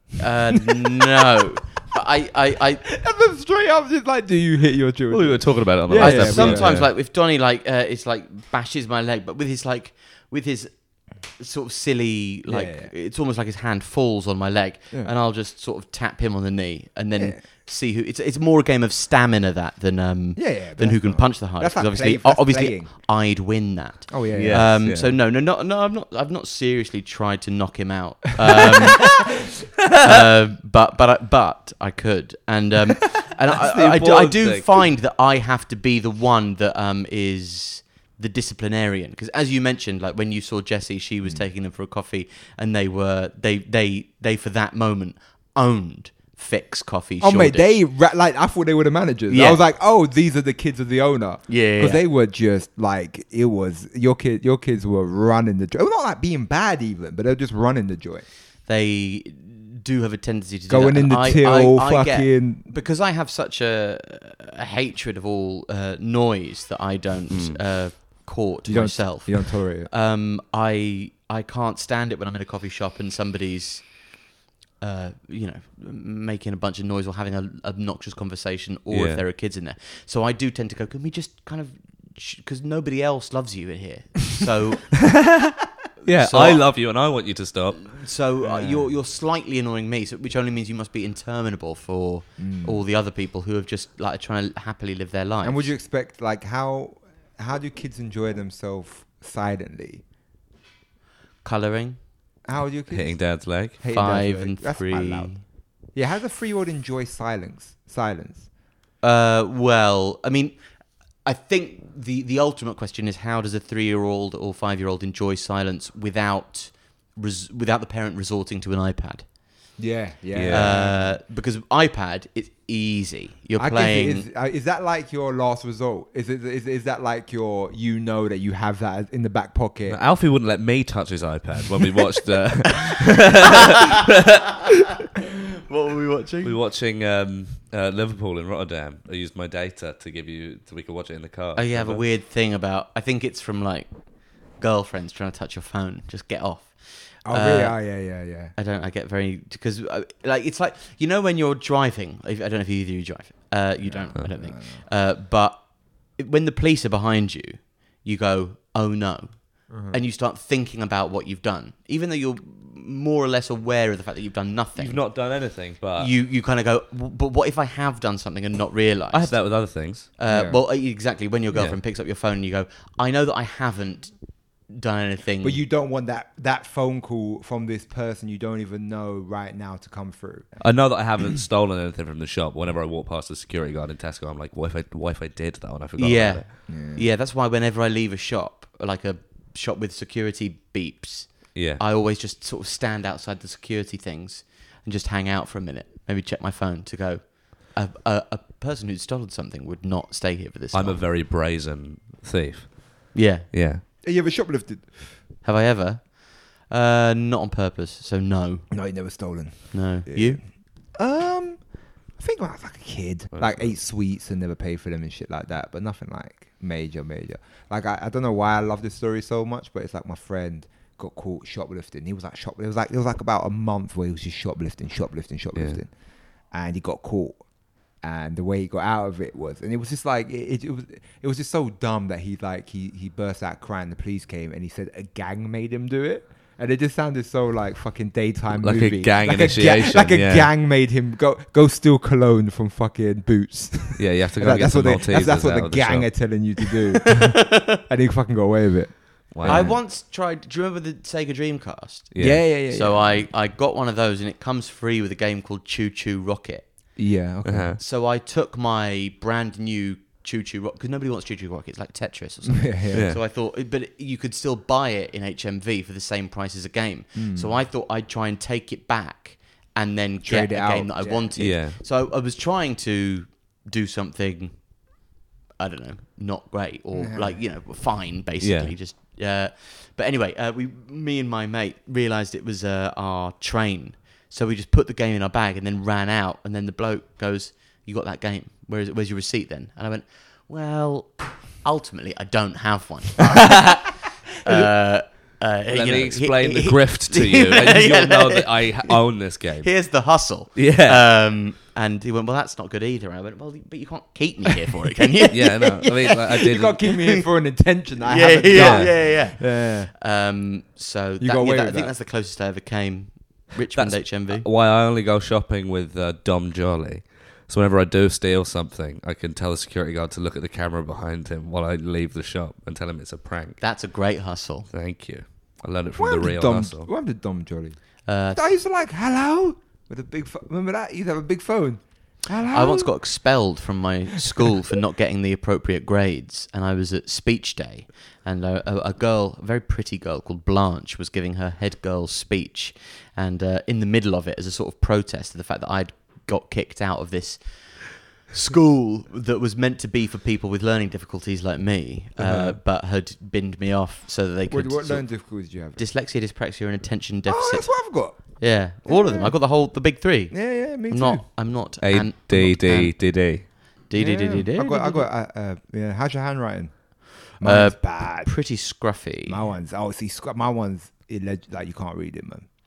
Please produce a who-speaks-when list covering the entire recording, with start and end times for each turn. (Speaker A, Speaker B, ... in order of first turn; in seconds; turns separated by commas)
Speaker A: 0.2-2.9, Speaker B: 2.9-6.8, Speaker C: 5.1-6.9, Speaker A: 5.9-29.3, Speaker B: 12.5-12.9, Speaker B: 17.1-17.4, Speaker B: 20.4-23.0, Speaker B: 24.1-24.7, Speaker C: 24.3-25.2, Speaker A: 30.0-47.8, Speaker C: 33.6-34.9, Speaker B: 47.2-58.3, Speaker A: 49.3-49.6, Speaker A: 51.5-52.0, Speaker A: 58.7-74.1, Speaker B: 60.7-62.6, Speaker C: 67.3-67.6, Speaker B: 68.7-69.9, Speaker A: 74.8-85.1, Speaker C: 78.9-79.2, Speaker C: 86.0-88.0, Speaker A: 86.0-86.8, Speaker A: 87.7-95.7, Speaker B: 88.4-88.9, Speaker B: 92.4-92.8, Speaker B: 95.4-100.0, Speaker A: 101.4-102.0, Speaker B: 102.5-105.4, Speaker C: 102.9-103.8, Speaker A: 103.9-105.4, Speaker B: 105.9-108.5, Speaker A: 109.0-110.6, Speaker A: 111.2-119.3, Speaker B: 119.8-121.2, Speaker C: 120.3-120.7, Speaker A: 120.5-124.3, Speaker B: 123.6-130.0, Speaker C: 129.9-134.4, Speaker A: 135.7-136.6, Speaker C: 136.4-142.1, Speaker A: 141.6-165.3, Speaker B: 147.2-148.5, Speaker B: 153.8-154.8, Speaker B: 159.7-160.0, Speaker C: 164.8-166.1, Speaker A: 165.9-174.2, Speaker C: 169.1-170.1, Speaker B: 170.3-170.6, Speaker C: 171.5-171.8, Speaker A: 174.7-175.6, Speaker B: 175.4-180.5, Speaker C: 180.6-186.5, Speaker A: 186.0-201.1, Speaker B: 186.7-187.0, Speaker C: 191.6-191.8, Speaker C: 200.7-203.8, Speaker A: 203.1-203.5, Speaker B: 204.0-205.2, Speaker A: 205.4-208.7, Speaker B: 208.7-227.4, Speaker A: 209.7-210.4, Speaker C: 213.3-213.7, Speaker C: 225.6-225.8, Speaker B: 228.0-249.8, Speaker C: 238.6-240.5, Speaker C: 244.0-246.4, Speaker A: 247.1-247.8, Speaker C: 249.3-249.8, Speaker A: 249.4-256.8, Speaker C: 252.1-252.4, Speaker B: 252.2-253.2, Speaker B: 257.0-257.8, Speaker C: 257.4-257.8, Speaker A: 257.8-275.0, Speaker B: 262.5-263.1, Speaker C: 262.9-263.2, Speaker B: 267.1-267.6, Speaker B: 270.2-271.3, Speaker C: 271.4-271.8, Speaker A: 275.6-293.9, Speaker B: 276.9-277.4, Speaker C: 278.4-278.7, Speaker A: 294.4-299.0, Speaker C: 295.7-301.0, Speaker A: 299.6-307.3, Speaker C: 305.3-306.8, Speaker B: 306.4-309.9, Speaker A: 308.0-314.5, Speaker C: 308.5-309.0, Speaker B: 311.2-311.9, Speaker C: 313.8-323.6, Speaker A: 323.6-324.7, Speaker C: 324.7-326.9, Speaker B: 326.0-332.9, Speaker A: 328.1-328.4, Speaker A: 332.5-357.7, Speaker B: 352.2-352.6, Speaker B: 354.5-355.8, Speaker B: 357.3-359.4, Speaker A: 358.4-365.1, Speaker B: 360.3-361.2, Speaker C: 361.8-363.5, Speaker B: 364.0-368.3, Speaker A: 367.4-369.4, Speaker B: 369.2-372.5